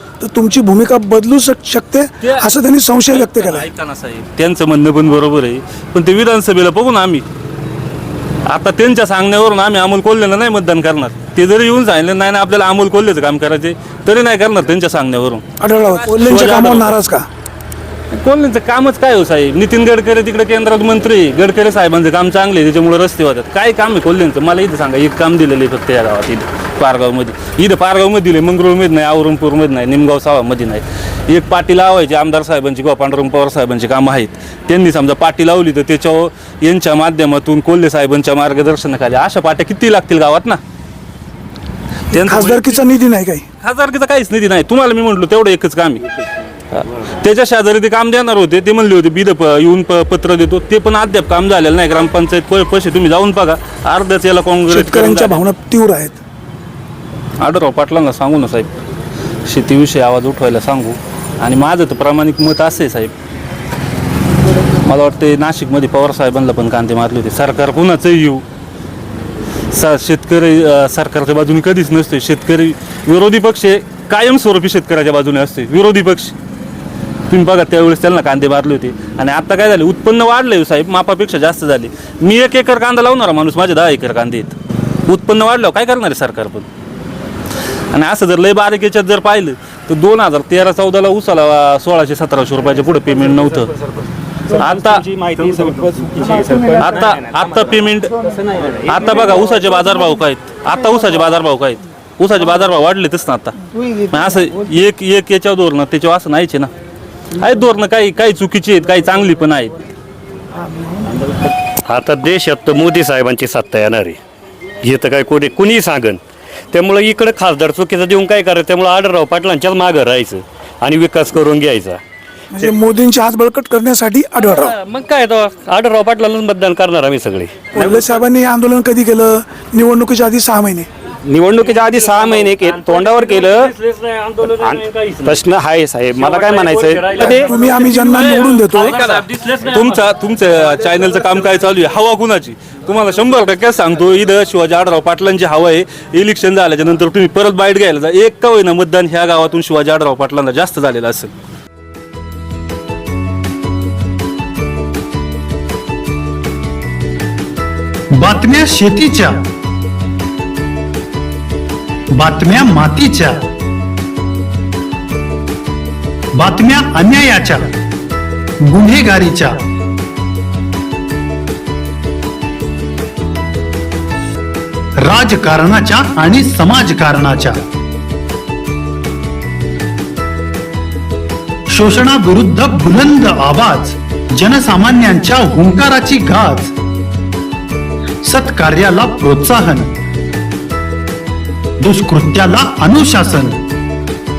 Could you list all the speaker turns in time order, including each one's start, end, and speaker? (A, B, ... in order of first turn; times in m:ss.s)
0:00.2-0:03.6 A
0:02.2-0:02.5 B
0:03.1-0:07.2 B
0:08.4-0:15.4 B
0:15.6-0:17.2 A
0:16.0-0:16.9 B
0:18.1-0:40.6 B
0:42.1-0:42.8 B
0:42.1-0:43.4 A
0:43.6-0:46.1 B
0:46.7-0:55.4 B
0:54.7-0:56.2 A
0:57.4-0:58.7 B
0:59.4-1:03.1 B
1:04.8-1:08.4 B
1:09.7-1:16.3 B
1:17.3-1:26.7 B
1:27.9-1:33.7 B
1:34.5-1:35.7 B
1:34.9-1:36.8 C
1:36.4-1:38.2 B
1:38.8-1:46.7 B
1:47.4-1:49.8 B
1:51.8-1:54.2 D
1:54.8-1:56.2 D
1:56.7-2:02.0 D
2:02.5-2:04.8 A
2:04.8-2:07.7 D
2:07.7-2:10.9 A
2:11.2-2:13.7 C
2:13.2-2:14.2 B
2:14.4-2:17.5 C
2:16.5-2:31.3 B
2:17.2-2:19.0 A
2:38.1-2:39.4 E
2:42.1-2:43.4 E
2:46.3-2:47.7 E
2:48.6-2:49.6 E
2:55.0-2:57.6 E
3:01.7-3:06.7 E
3:08.2-3:09.9 E
3:11.8-3:13.6 E